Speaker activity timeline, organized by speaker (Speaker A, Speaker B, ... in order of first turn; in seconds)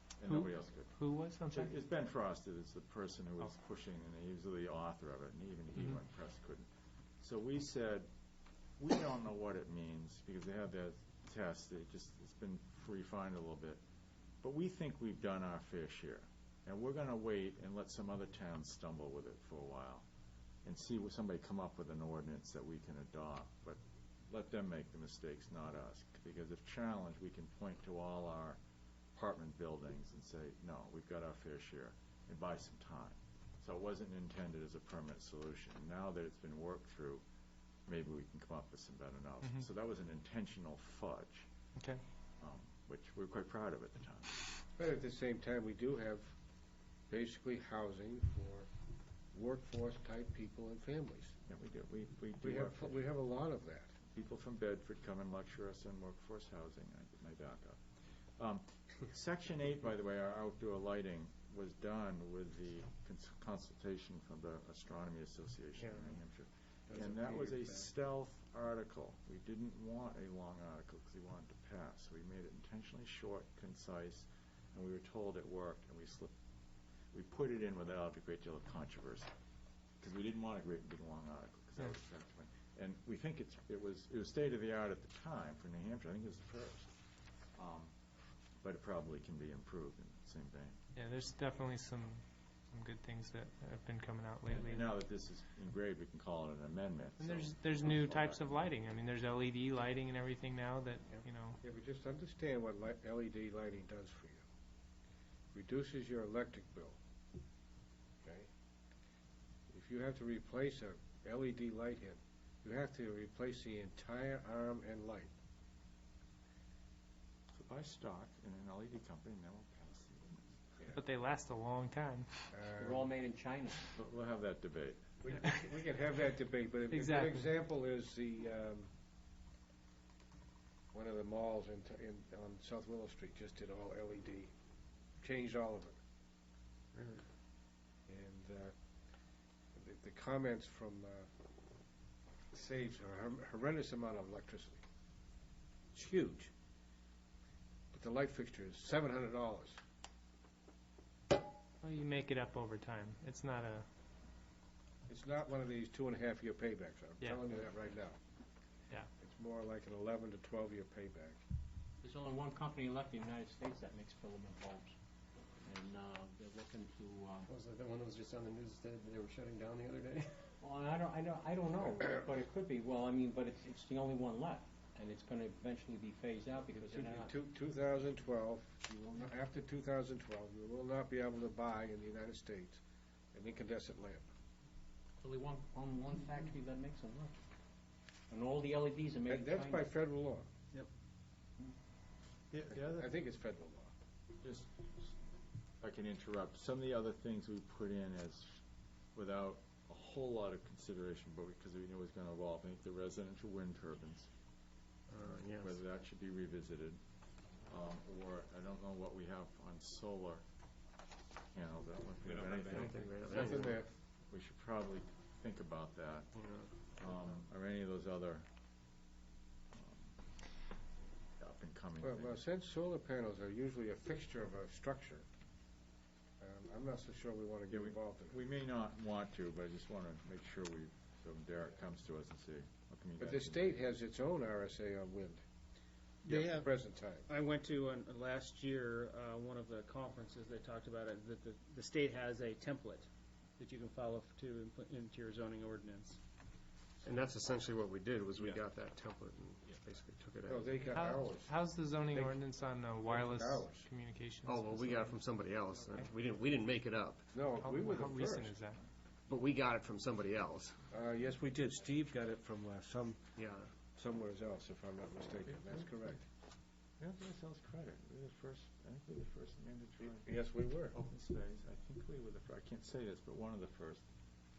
Speaker A: 0.2-0.9, 1.5-6.7, 7.2-8.1, 8.8-13.8, 14.4-20.1, 20.6-28.6, 29.1-37.2, 37.9-41.5, 42.4-44.4, 51.5-53.0, 54.1-57.8, 58.4-76.3, 77.1-79.3, 80.0-87.0, 87.5-87.9, 88.6-90.8, 94.5-98.5, 117.5-120.4, 123.9-125.2, 192.5-193.1, 194.4-194.7, 195.8-198.6, 199.1-204.3, 205.6-207.0, 207.7-210.4, 211.5-213.7, 214.3-216.3, 216.9-218.4, 219.7-220.2, 221.4-222.4, 227.7-233.8, 236.2-236.5, 265.5-265.9, 267.0-270.3, 270.9-274.0
Speaker B: 0.2-1.8, 41.8-42.0, 90.9-94.9, 97.2-101.6, 120.9-122.5, 126.9-127.5, 151.8-153.9, 250.9-255.2, 257.6-258.8
Speaker C: 44.8-46.3, 47.1-48.7, 49.3-51.3, 52.4-53.9, 101.6-104.4, 105.5-107.0, 108.2-108.5, 109.7-115.3, 122.5-123.0, 125.2-128.9, 130.9-134.5, 135.2-136.0, 138.1-138.7, 139.7-141.3, 142.5-144.8, 145.9-146.5, 147.9-149.8, 155.1-158.2, 159.2-161.4, 176.7-182.8, 183.3-184.3, 189.3-190.5, 192.8-193.9, 213.3-213.9, 222.0-225.2, 226.4-228.4, 233.2-235.4, 236.4-237.3, 250.4-251.5, 252.1-252.4, 253.0-253.9, 257.3-258.5, 260.9-263.2, 263.9-266.2, 270.1-270.9
Speaker D: 66.9-67.8, 136.9-137.2, 167.5-170.4, 205.1-205.8, 212.7-213.8, 216.4-216.7, 247.0-250.7, 254.4-257.3, 259.3-260.8, 263.4-263.7
Speaker E: 122.7-123.9, 162.0-164.9, 165.6-167.5, 170.6-177.3, 185.2-187.4, 188.3-189.9
Speaker F: 236.2-236.7, 237.3-243.1, 243.6-246.2